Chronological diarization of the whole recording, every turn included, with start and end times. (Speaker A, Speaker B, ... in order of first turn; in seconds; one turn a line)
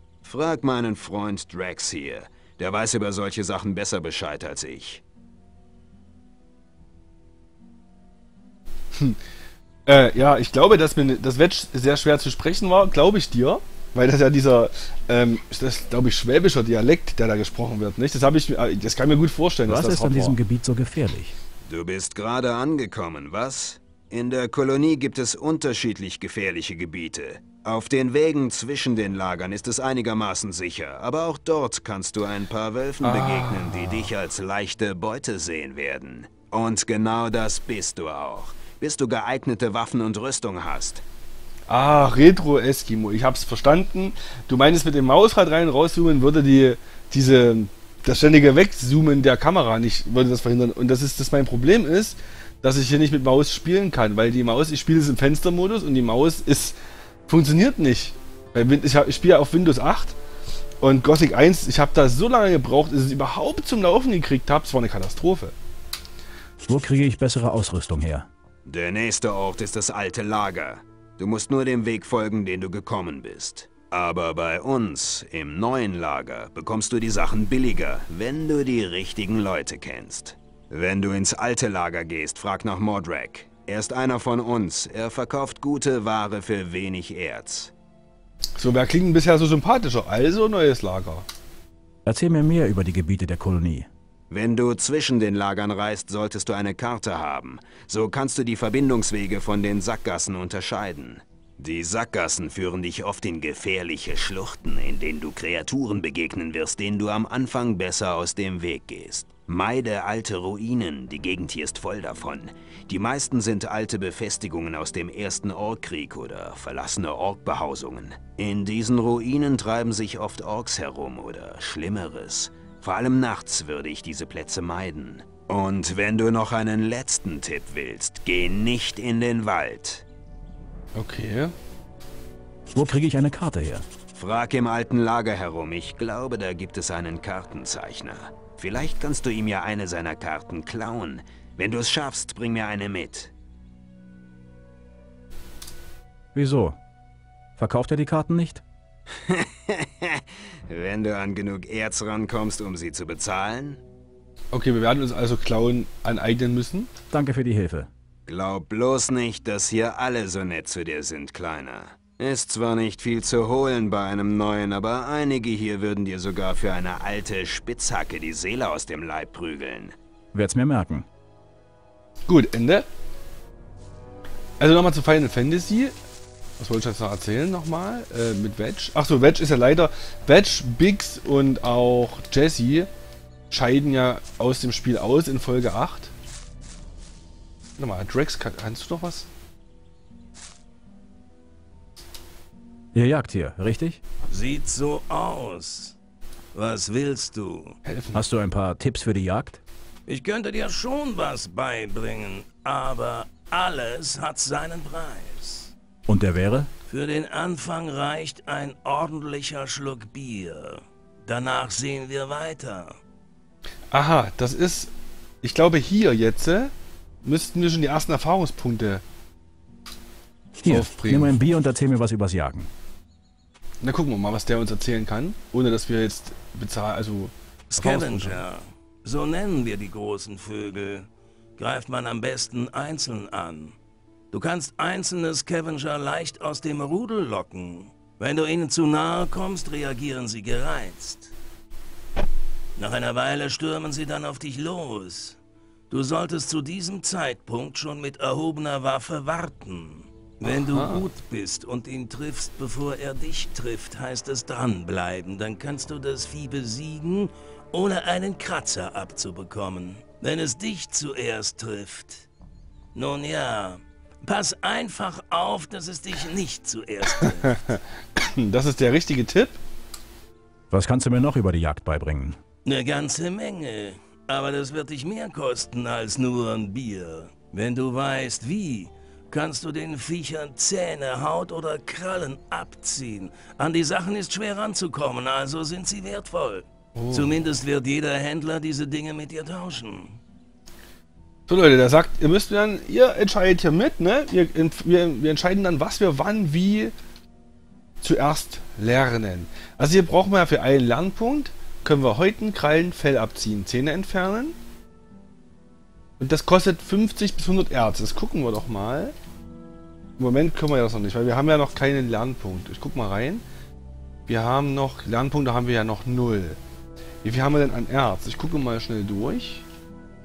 Speaker A: 0.2-5.0
Speaker B: 9.9-20.4
Speaker C: 19.7-21.4
Speaker A: 21.6-41.0
Speaker B: 33.0-34.1
Speaker B: 41.7-56.8
Speaker B: 57.3-60.2
Speaker B: 60.8-65.5
Speaker C: 66.6-68.3
Speaker A: 68.7-87.7
Speaker B: 88.6-91.3
Speaker C: 92.1-93.9
Speaker A: 94.3-130.1
Speaker B: 130.9-131.5
Speaker C: 132.7-133.9
Speaker A: 134.1-143.3
Speaker C: 146.3-146.8
Speaker C: 147.6-148.6
Speaker A: 149.3-153.8
Speaker B: 154.5-156.9
Speaker C: 157.1-157.9
Speaker A: 158.3-169.9
Speaker C: 170.3-171.1
Speaker B: 172.3-172.9
Speaker B: 174.6-175.9
Speaker B: 176.6-182.9
Speaker B: 183.5-186.1
Speaker B: 187.8-189.3
Speaker C: 192.9-194.0
Speaker D: 194.3-196.0
Speaker D: 196.5-197.8
Speaker B: 197.8-198.2
Speaker C: 198.1-199.6
Speaker D: 200.1-205.7
Speaker C: 206.1-206.7
Speaker D: 206.9-213.0
Speaker B: 213.9-214.9
Speaker B: 215.4-219.0
Speaker C: 220.6-222.7
Speaker B: 220.7-221.3
Speaker B: 223.8-228.4
Speaker D: 227.7-233.8
Speaker D: 234.3-241.3
Speaker D: 242.8-245.4
Speaker D: 245.9-262.3
Speaker B: 250.4-251.1
Speaker D: 262.9-267.7
Speaker B: 267.2-269.6
Speaker C: 270.7-272.4
Speaker D: 272.6-290.2
Speaker B: 286.9-287.4
Speaker B: 291.5-296.9
Speaker B: 298.0-304.6
Speaker B: 306.2-309.1
Speaker B: 310.2-313.4
Speaker B: 314.3-316.6
Speaker B: 317.2-319.6